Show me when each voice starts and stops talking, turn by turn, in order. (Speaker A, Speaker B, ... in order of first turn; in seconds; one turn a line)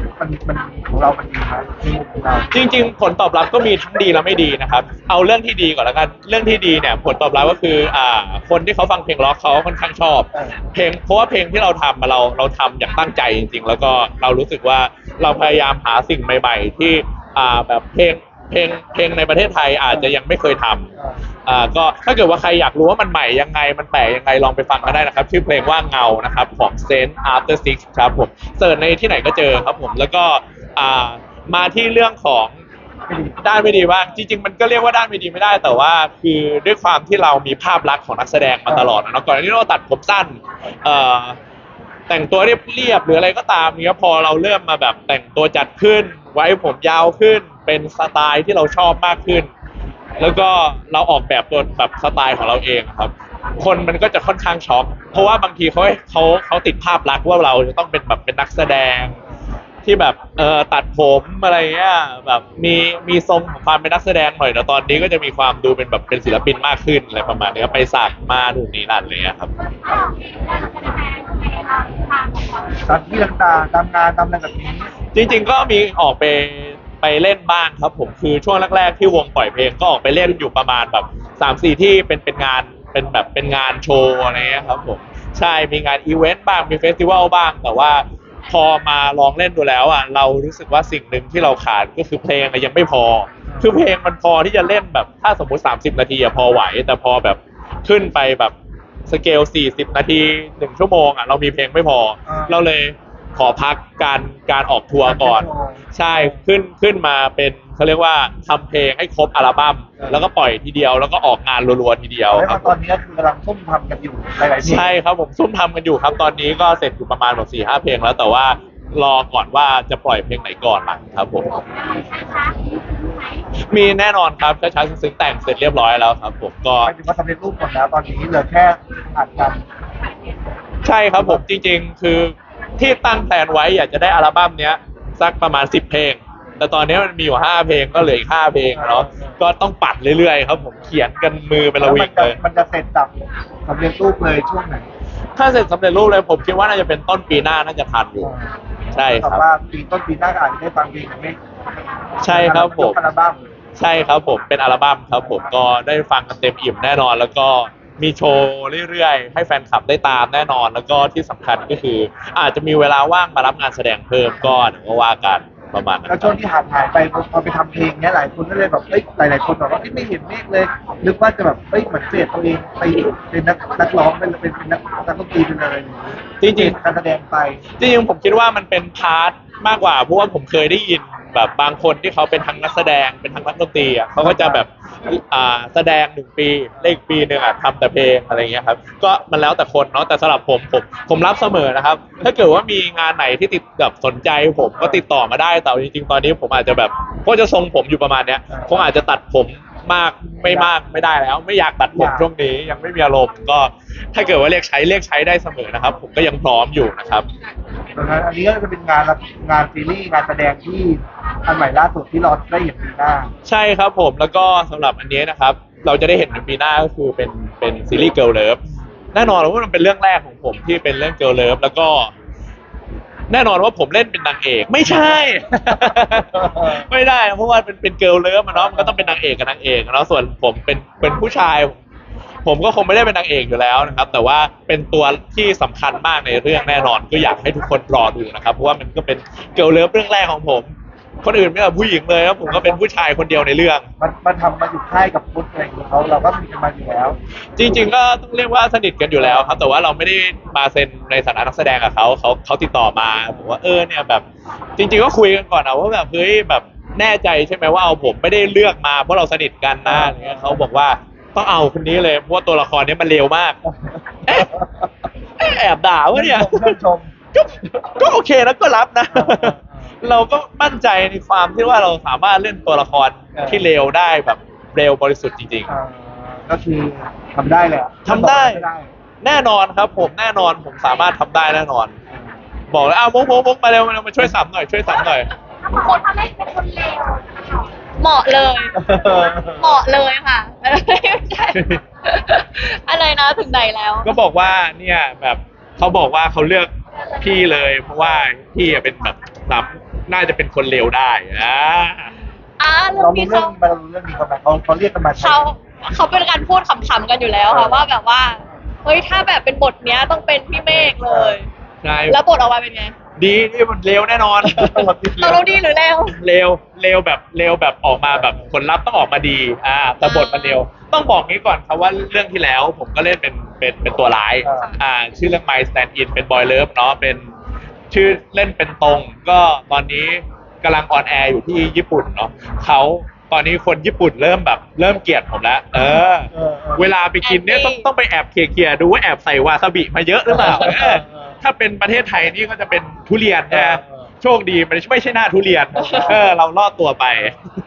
Speaker A: 0.2-2.5
Speaker B: 2.5-20.9
Speaker A: 19.9-20.2
Speaker B: 21.5-32.6
Speaker A: 33.1-34.3
Speaker B: 33.4-41.4
Speaker A: 38.7-39.1
Speaker B: 42.1-49.5
Speaker B: 50.2-59.2
Speaker B: 59.9-69.5
Speaker A: 72.8-74.9
Speaker B: 75.1-98.5
Speaker A: 84.3-84.8
Speaker A: 93.5-93.8
Speaker B: 99.1-112.7
Speaker A: 102.3-102.7
Speaker A: 105.0-106.4
Speaker A: 110.0-110.3
Speaker A: 112.3-115.0
Speaker B: 114.6-121.5
Speaker B: 123.7-126.9
Speaker A: 126.8-129.7
Speaker B: 130.8-142.4
Speaker A: 131.2-131.4
Speaker A: 138.7-139.4
Speaker A: 141.8-143.1
Speaker A: 143.7-144.9
Speaker B: 145.4-148.3
Speaker A: 148.2-151.4
Speaker B: 148.9-149.4
Speaker B: 152.2-153.0
Speaker A: 152.2-153.4
Speaker B: 153.8-166.3
Speaker A: 155.1-155.6
Speaker A: 166.1-177.6
Speaker B: 176.4-176.8
Speaker B: 177.8-207.3
Speaker A: 184.2-184.7
Speaker A: 194.8-195.0
Speaker A: 198.5-198.9
Speaker A: 200.4-201.1
Speaker A: 201.9-202.8
Speaker A: 207.9-213.3
Speaker B: 213.5-218.6
Speaker B: 219.1-222.1
Speaker B: 223.3-231.8
Speaker A: 224.8-226.8
Speaker A: 228.5-229.3
Speaker B: 232.4-243.9
Speaker A: 233.8-234.2
Speaker A: 242.4-242.8
Speaker A: 244.0-247.2
Speaker B: 247.6-254.2
Speaker A: 249.2-249.6
Speaker A: 253.3-253.6
Speaker B: 254.8-263.6
Speaker A: 259.9-260.7
Speaker A: 263.6-264.9
Speaker B: 265.4-266.8
Speaker A: 266.1-267.1
Speaker B: 267.3-275.7
Speaker A: 269.1-269.9
Speaker A: 273.4-273.7
Speaker A: 275.7-278.9
Speaker B: 278.1-278.7
Speaker B: 279.2-282.0
Speaker A: 282.1-282.4
Speaker B: 282.7-285.3
Speaker C: 285.7-287.3
Speaker C: 288.0-288.7
Speaker A: 288.8-289.8
Speaker C: 289.6-294.1
Speaker B: 291.6-291.8
Speaker B: 294.0-296.7
Speaker B: 297.2-302.1
Speaker A: 298.0-298.3
Speaker C: 302.6-303.6
Speaker A: 302.9-305.4
Speaker C: 305.2-311.5
Speaker A: 307.5-307.9
Speaker A: 310.7-311.4
Speaker B: 311.8-312.2
Speaker C: 312.1-313.0
Speaker B: 313.2-314.9
Speaker A: 314.4-315.7
Speaker C: 315.2-316.2
Speaker B: 316.1-327.3
Speaker A: 318.0-318.5
Speaker C: 320.0-320.6
Speaker A: 324.4-324.8
Speaker B: 327.9-347.4
Speaker A: 335.8-336.9
Speaker C: 337.2-337.9
Speaker A: 340.3-341.4
Speaker A: 343.5-344.1
Speaker A: 345.7-346.3
Speaker C: 345.8-346.2